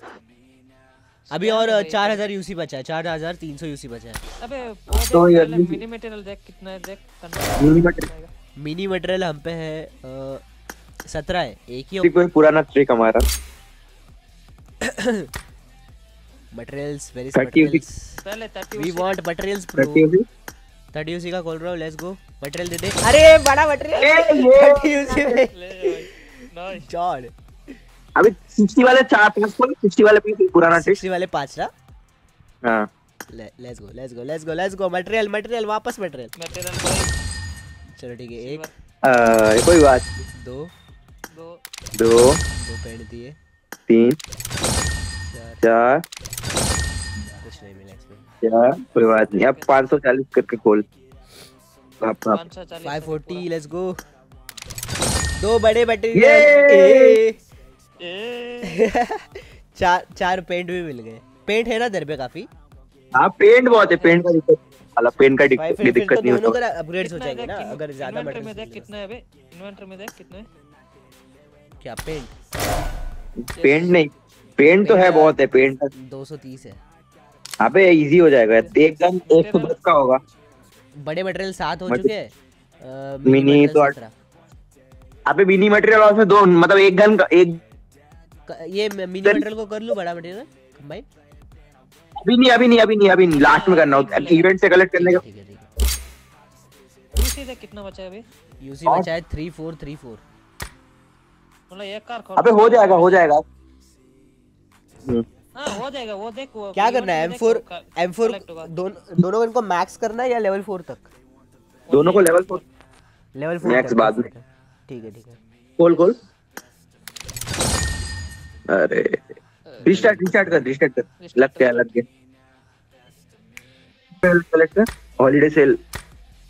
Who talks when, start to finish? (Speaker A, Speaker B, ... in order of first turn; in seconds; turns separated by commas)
Speaker A: 1.3-2.2, Speaker B: 1.3-4.2, Speaker A: 4.4-8.3, Speaker C: 4.9-5.8, Speaker C: 7.6-8.1, Speaker B: 8.6-10.4, Speaker B: 11.1-12.1, Speaker C: 12.0-13.2, Speaker B: 14.8-15.3, Speaker B: 16.5-18.2, Speaker C: 17.4-17.8, Speaker A: 18.2-19.1, Speaker B: 18.8-20.1, Speaker C: 19.8-20.2, Speaker B: 20.9-27.3, Speaker A: 24.0-24.3, Speaker C: 24.0-25.0, Speaker A: 25.1-26.9, Speaker C: 28.2-31.0, Speaker B: 30.7-31.7, Speaker B: 33.3-36.3, Speaker A: 36.4-37.1, Speaker B: 38.0-38.7, Speaker A: 38.4-38.7, Speaker C: 39.0-40.2, Speaker B: 40.4-40.7, Speaker A: 41.3-41.6, Speaker C: 42.0-42.4, Speaker B: 42.6-43.4, Speaker C: 43.9-44.2, Speaker B: 45.2-45.6, Speaker C: 45.6-46.0, Speaker B: 47.3-48.3, Speaker C: 48.4-50.9, Speaker A: 49.0-49.7, Speaker C: 52.0-52.4, Speaker A: 52.3-53.5, Speaker B: 52.8-54.0, Speaker B: 55.4-57.4, Speaker C: 56.1-57.2, Speaker A: 58.0-58.8, Speaker B: 58.6-62.5, Speaker C: 63.2-66.6, Speaker A: 64.0-64.3, Speaker B: 65.6-68.9, Speaker A: 67.0-70.5, Speaker B: 71.8-72.4, Speaker A: 73.6-74.0, Speaker C: 73.6-75.9, Speaker B: 74.8-75.4, Speaker B: 76.0-76.8, Speaker C: 77.6-80.2, Speaker A: 78.5-79.8, Speaker B: 81.0-84.1, Speaker C: 83.3-84.0, Speaker C: 85.3-87.6, Speaker B: 88.5-91.1, Speaker C: 92.2-95.2, Speaker A: 93.3-94.5, Speaker B: 94.9-95.7, Speaker A: 97.2-98.2, Speaker B: 98.6-100.2, Speaker A: 101.7-103.2, Speaker C: 102.4-103.4, Speaker A: 105.5-108.7, Speaker B: 106.8-111.1, Speaker A: 111.9-112.7, Speaker C: 111.9-112.6, Speaker B: 113.4-115.4, Speaker C: 113.6-114.3, Speaker C: 115.8-116.2, Speaker C: 118.7-122.0, Speaker A: 119.7-120.0, Speaker B: 119.8-120.7, Speaker A: 121.2-121.9, Speaker C: 124.2-125.8